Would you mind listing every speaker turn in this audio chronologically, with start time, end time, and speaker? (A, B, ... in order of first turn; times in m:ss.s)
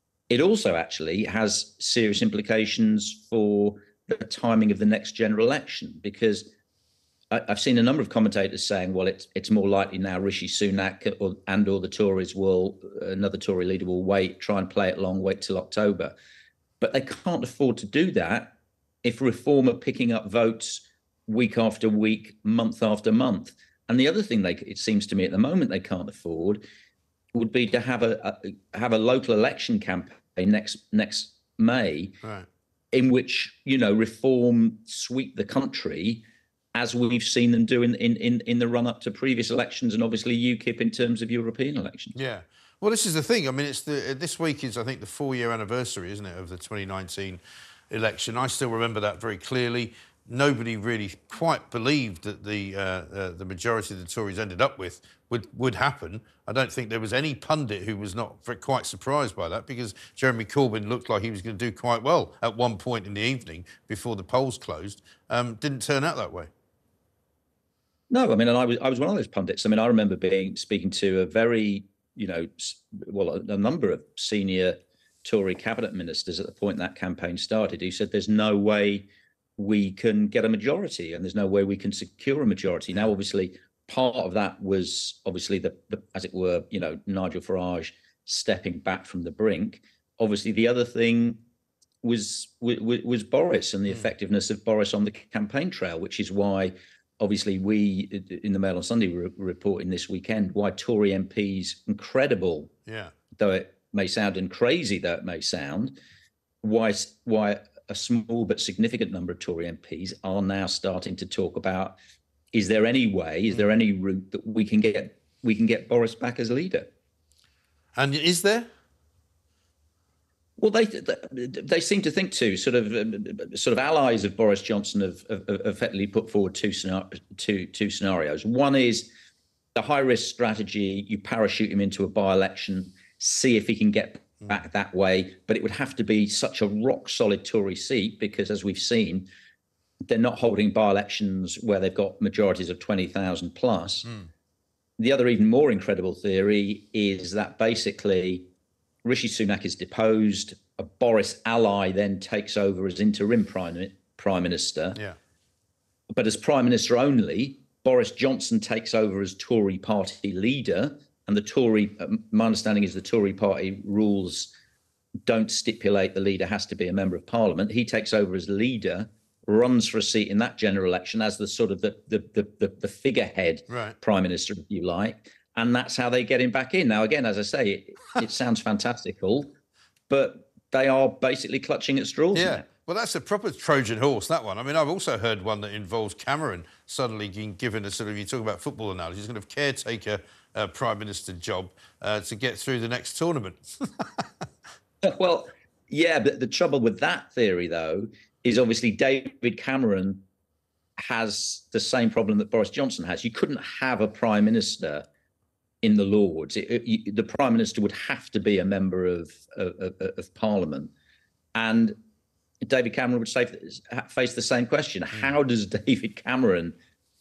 0:00.3-0:06.5 A
0:07.3-0:16.2 A
0:16.8-0:26.6 A
0:27.3-0:32.2 A
0:32.9-0:42.2 A
0:42.1-1:06.5 B
1:08.1-1:19.0 A
1:19.6-1:31.4 A
1:32.0-1:42.7 A
1:42.9-1:43.1 B
1:43.3-1:46.0 A
1:46.6-1:52.0 A
1:52.5-1:56.9 A
1:58.0-1:58.7 B
2:00.6-2:09.1 A
2:09.7-2:19.3 A
2:20.1-2:24.1 A
2:25.0-2:28.4 A
2:29.0-2:35.0 A
2:36.1-2:44.5 A
2:45.2-2:59.5 A
2:53.7-2:54.0 B
3:00.1-3:02.6 A
3:02.3-3:14.3 B
3:15.0-3:20.2 A
3:21.0-3:25.0 A
3:25.8-3:30.9 A
3:31.5-3:32.0 A
3:32.6-3:36.7 A